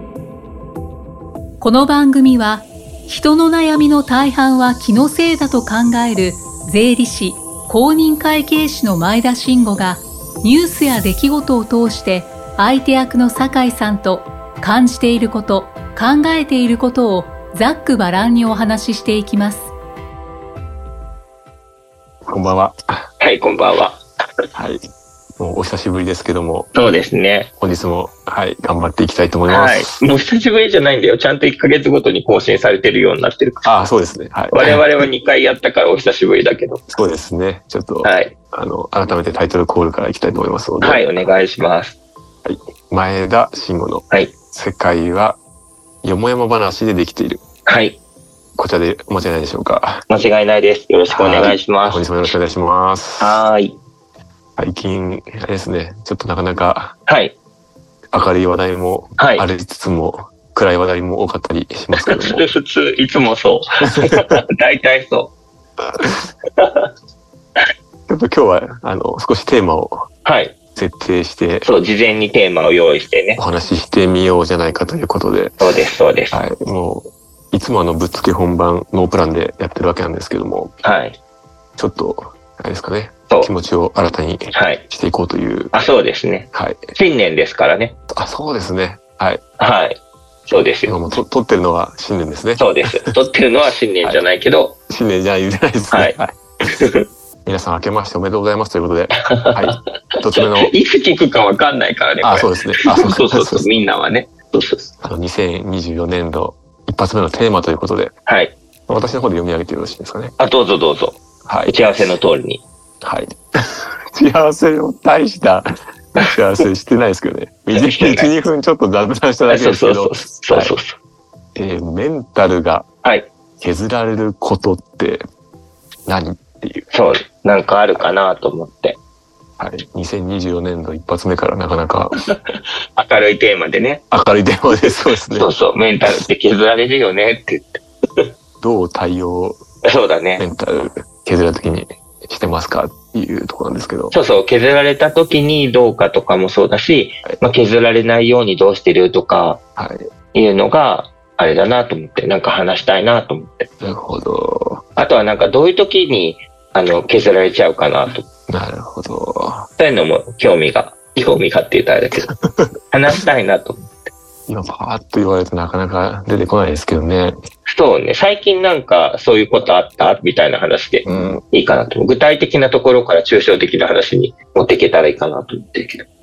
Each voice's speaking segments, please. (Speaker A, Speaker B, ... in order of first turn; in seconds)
Speaker A: 1.6-19.7
Speaker B: 22.2-23.1, 24.6-24.8, 25.4-26.7, 27.6-29.9, 33.6-34.9, 36.9-41.1, 42.4-45.4, 46.0-47.4, 48.6-50.0, 51.1-53.4, 54.6-56.9, 58.1-62.4, 63.9-64.4, 68.1-70.1, 70.7-71.7, 73.4-75.7, 76.3-80.7, 81.8-85.7, 86.5-86.9, 88.1-89.4, 90.8-93.2, 94.9-96.4, 97.5-100.7, 102.2-103.6, 105.0-108.1, 108.9-110.3, 111.5-112.2, 113.0-120.8, 121.5-122.8, 123.6-125.2, 126.0-126.9, 129.6-132.2, 134.1-135.5, 138.6-139.6, 140.4-144.2, 149.8-150.1, 153.8-154.8, 158.5-159.7, 162.2-162.7, 164.5-167.3, 171.0-171.4
Speaker C: 23.2-24.0, 26.7-27.5, 29.5-33.7, 34.5-36.8, 38.0-38.3, 40.8-42.0, 44.1-44.3, 47.7-48.0, 50.1-52.1, 53.2-53.8, 57.1-57.4, 59.2-59.5, 61.9-65.3, 66.6-66.9, 70.2-70.5, 71.6-73.4, 75.6-76.4, 80.8-81.2, 84.5-84.8, 85.7-88.0, 89.6-91.0, 92.6-94.8, 95.9-96.2, 96.8-97.0, 99.3-99.8, 100.3-104.9, 108.2-108.6, 110.4-112.6, 117.7-118.3, 119.5-121.0, 123.0-123.3, 126.9-129.0, 132.3-134.0, 134.8-138.2, 139.8-140.4, 144.1-149.6, 150.3-153.7, 154.9-158.2, 159.8-162.3, 162.9-164.1, 167.7-176.1